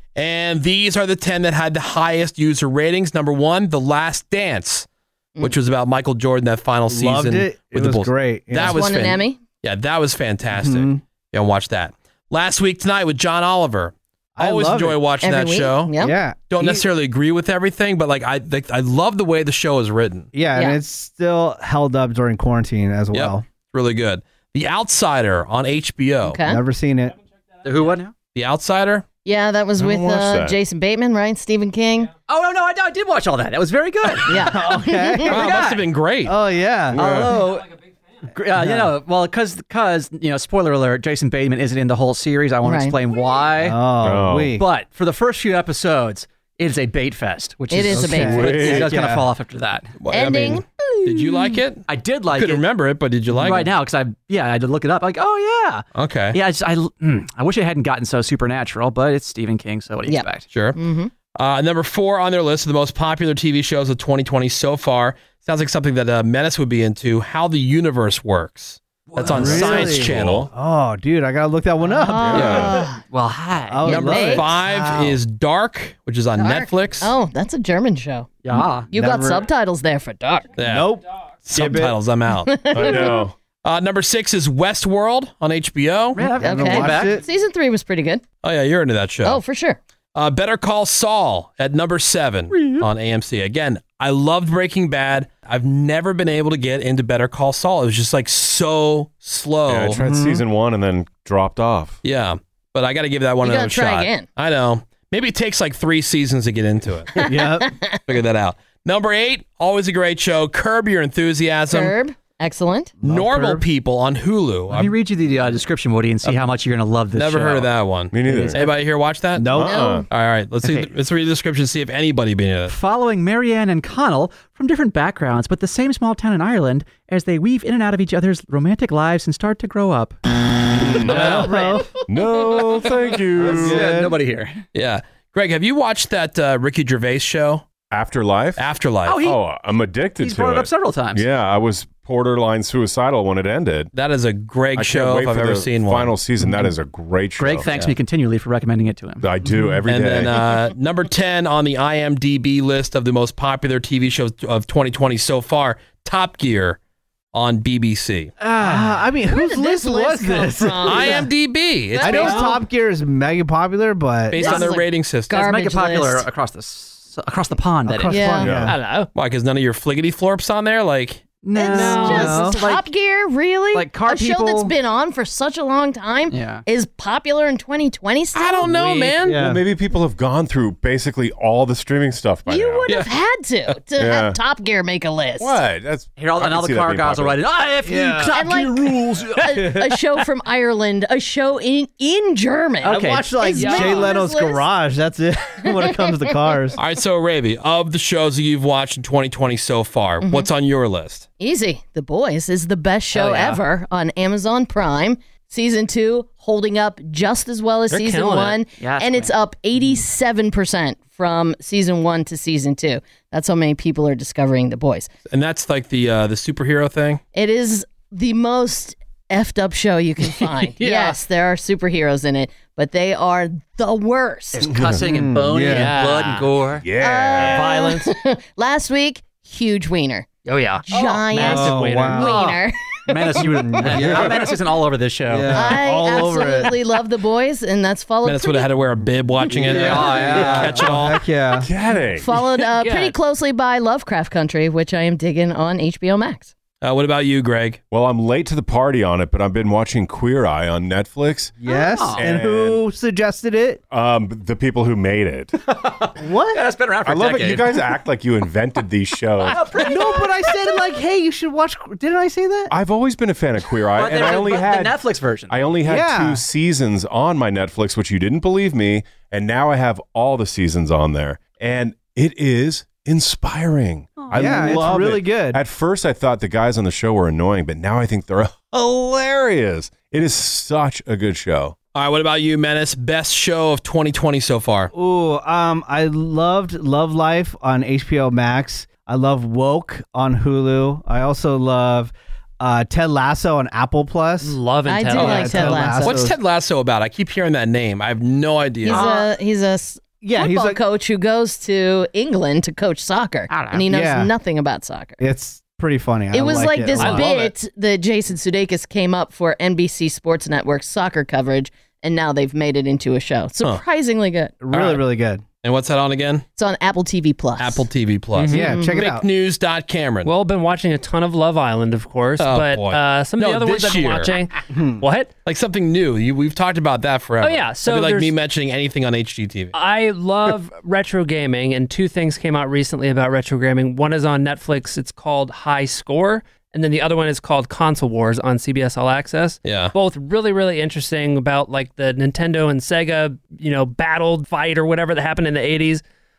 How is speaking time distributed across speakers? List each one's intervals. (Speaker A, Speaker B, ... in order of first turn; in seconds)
Speaker A: 0.1-4.8, 5.4-15.9, 16.5-20.3, 23.1-26.4, 28.3-29.0, 35.2-36.3, 50.0-53.7, 56.0-56.4, 60.5-60.8, 61.3-70.5, 72.3-72.8, 73.8-77.1, 80.6-80.9, 81.5-86.2, 88.4-89.4, 90.1-100.0, 102.0-107.2, 108.1-111.9, 113.0-114.9, 117.1-119.5, 120.1-122.7, 134.7-137.7, 138.6-139.2, 143.9-146.1, 147.7-147.9, 149.9-156.8, 157.3-158.3, 160.8-162.5, 164.3-165.3, 169.1-171.3, 178.3-179.4, 196.8-201.3, 215.3-217.2, 238.2-241.2, 246.8-247.8, 281.9-284.9, 296.0-299.1, 314.7-315.0, 315.6-316.4, 317.6-320.3, 322.4-324.4, 325.4-329.7, 339.6-339.9
Speaker B: 6.9-8.9, 10.5-11.0, 14.4-15.0, 16.0-16.8, 20.3-23.4, 26.4-27.2, 34.4-35.6, 36.2-37.0, 38.5-38.9, 43.6-44.6, 47.8-49.3, 69.2-72.7, 73.7-74.6, 78.5-79.5, 80.6-82.0, 86.2-87.2, 100.0-100.4, 107.2-107.7, 113.0-113.7, 118.2-118.7, 119.4-119.8, 131.0-131.9, 133.4-134.2, 158.6-161.3, 162.0-164.6, 167.8-168.8, 172.0-172.6, 179.2-179.6, 187.8-188.4, 189.6-189.9, 192.8-196.8, 224.9-225.9, 231.4-232.4, 233.4-234.4, 235.3-236.7, 239.5-241.7, 251.6-253.8, 256.2-256.7, 259.8-262.7, 265.8-266.4, 274.4-275.6, 284.9-294.6, 295.1-296.3, 300.2-300.8, 303.9-304.3, 305.2-307.3, 314.6-315.4, 318.5-319.3, 324.7-325.0
Speaker C: 8.6-9.4, 15.2-16.1, 26.2-26.6, 29.2-32.1, 34.2-35.3, 42.6-43.0, 47.7-48.6, 50.1-51.6, 60.1-61.1, 72.1-73.0, 73.8-74.6, 76.4-78.3, 78.9-80.5, 82.4-83.2, 86.4-88.2, 89.2-89.8, 103.4-104.2, 107.6-108.0, 111.7-112.9, 119.6-120.0, 159.3-161.2, 161.9-162.5, 164.3-166.3, 168.1-168.5, 171.5-178.7, 182.5-185.6, 188.3-194.7, 200.2-200.5, 201.4-215.1, 217.3-224.7, 227.0-230.3, 230.8-234.4, 235.5-238.7, 242.2-246.5, 294.9-296.2, 298.8-305.2, 306.3-314.5, 316.6-317.9, 318.6-319.0
Speaker D: 27.6-28.1, 32.3-34.7, 35.3-35.8, 36.9-37.7, 38.3-43.8, 44.5-49.9, 51.9-52.6, 53.3-60.5, 69.1-70.0, 72.9-74.0, 74.6-75.1, 78.4-78.9, 86.1-87.2, 92.5-92.8, 114.7-117.7, 120.6-120.9, 122.7-130.2, 130.9-131.8, 133.4-134.6, 139.1-139.4, 140.2-141.2, 147.4-149.3, 158.4-159.0, 165.3-168.3, 171.4-172.9, 173.7-174.7, 176.3-176.6, 186.2-189.4, 192.8-193.4, 208.8-209.3, 224.5-226.8, 230.9-232.5, 233.1-235.8, 239.6-240.8, 251.6-252.2, 255.6-257.8, 259.5-260.5, 263.9-265.6, 274.2-275.0, 303.5-303.8
Speaker E: 29.8-30.6, 36.9-37.3, 44.0-44.6, 48.2-49.0, 69.3-70.5, 72.3-72.8, 82.7-83.3, 99.7-102.0, 118.1-118.6, 119.5-120.0, 130.8-131.5, 132.0-133.9, 137.9-138.7, 139.2-143.9, 144.8-147.7, 149.2-150.4, 168.4-168.7, 179.2-182.9, 184.0-184.4, 185.4-187.4, 224.7-225.1, 226.8-227.6, 233.9-234.2, 241.5-242.4, 247.9-251.6, 252.1-252.8, 253.9-255.5, 257.0-259.7, 262.7-265.0, 265.5-281.8
Speaker F: 160.6-161.3, 162.1-162.5, 168.7-169.1, 171.7-172.4, 178.7-179.1, 193.6-194.1, 203.1-203.6, 207.9-208.6, 220.4-221.2, 225.7-226.5, 227.4-228.1, 230.4-232.3, 242.7-243.2, 294.4-295.9, 307.0-307.5, 318.3-318.8, 320.2-325.3, 327.4-328.3, 329.7-346.0